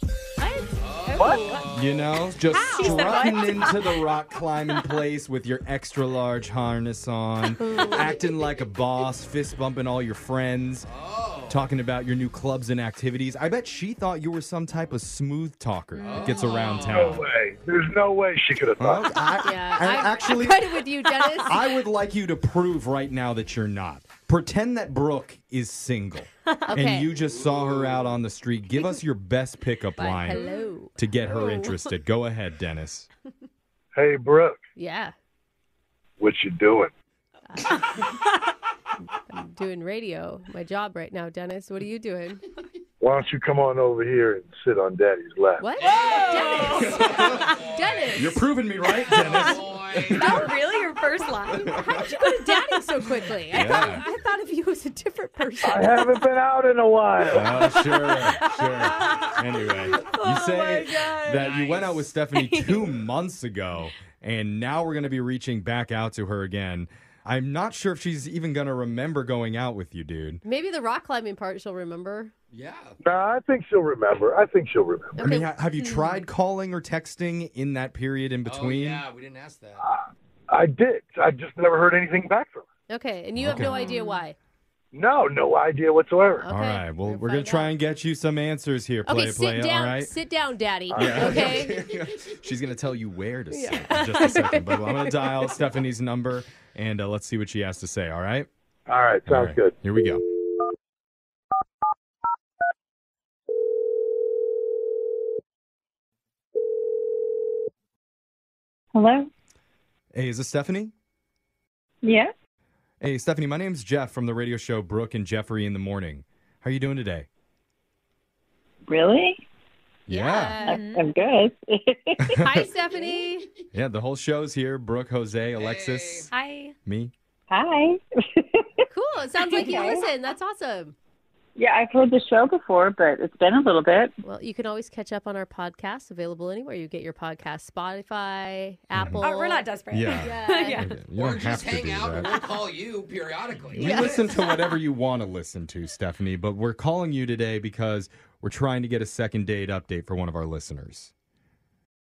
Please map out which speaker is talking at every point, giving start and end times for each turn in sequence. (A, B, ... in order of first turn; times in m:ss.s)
0:00.4-0:00.7 A
0:00.8-0:02.3 B
0:01.1-0:01.6 C
0:01.2-0:10.9 D
0:02.5-0:03.3 A
0:02.5-0:04.1 C
0:07.6-0:08.1 A
0:10.9-0:11.7 B
0:11.5-0:17.3 D
0:16.0-0:17.2 B
0:16.0-0:16.9 C
0:16.9-0:19.1 E
0:18.8-0:20.8 D
0:19.4-0:21.6 A
0:21.1-0:21.5 C
0:21.4-0:33.1 D
0:26.7-0:27.1 A
0:27.2-0:28.2 B
0:30.0-0:31.6 A
0:30.3-0:30.8 C
0:34.0-0:34.6 E
0:34.8-0:35.1 A
0:36.2-0:36.9 E
0:37.5-0:37.8 A
0:39.3-0:42.4 A
0:43.0-0:45.7 E
0:45.6-0:48.4 A
0:45.8-0:50.4 B
0:45.8-0:47.0 C
0:46.7-0:47.3 D
0:48.1-0:50.6 D
0:50.2-0:52.8 C
0:51.5-0:52.1 D
0:51.8-0:56.0 A
0:53.5-0:54.0 D
0:53.6-0:53.9 C
0:55.6-0:57.6 E
0:57.3-1:10.4 D
0:57.9-0:59.4 C
1:00.0-1:01.5 C
1:01.4-1:02.1 B
1:02.4-1:02.8 C
1:10.4-1:12.3 A
1:12.5-1:13.0 B
1:13.0-1:15.2 E
1:15.2-1:15.5 A
1:15.2-1:19.1 D
1:18.4-1:19.9 B
1:19.8-1:22.7 E
1:22.9-1:24.4 A
1:23.4-1:23.8 D
1:23.6-1:24.2 C
1:24.9-1:26.5 E
1:26.4-1:27.7 A
1:26.5-1:30.1 D
1:29.1-1:31.8 A
1:30.9-1:31.6 E
1:30.9-1:38.5 D
1:33.5-1:35.1 A
1:38.9-1:39.8 E
1:39.3-1:40.3 D
1:48.9-1:49.3 F
1:50.1-1:50.9 D
1:52.0-1:52.3 F
1:53.0-1:57.3 D
1:58.9-1:59.4 F
2:00.1-2:00.7 D
2:00.1-2:00.8 A
2:00.2-2:01.0 C
2:00.7-2:02.4 F
2:02.2-2:02.7 D
2:02.4-2:03.5 A
2:03.7-2:06.3 D
2:05.6-2:06.3 B
2:06.3-2:06.8 C
2:06.8-2:07.1 D
2:07.5-2:08.8 F
2:08.9-2:11.0 A
2:09.4-2:10.1 F
2:11.6-2:14.2 F
2:14.2-2:20.8 A
2:18.9-2:19.2 D
2:19.2-2:21.0 C
2:19.9-2:22.4 D
2:21.2-2:24.4 B
2:23.7-2:31.1 D
2:23.8-2:24.2 A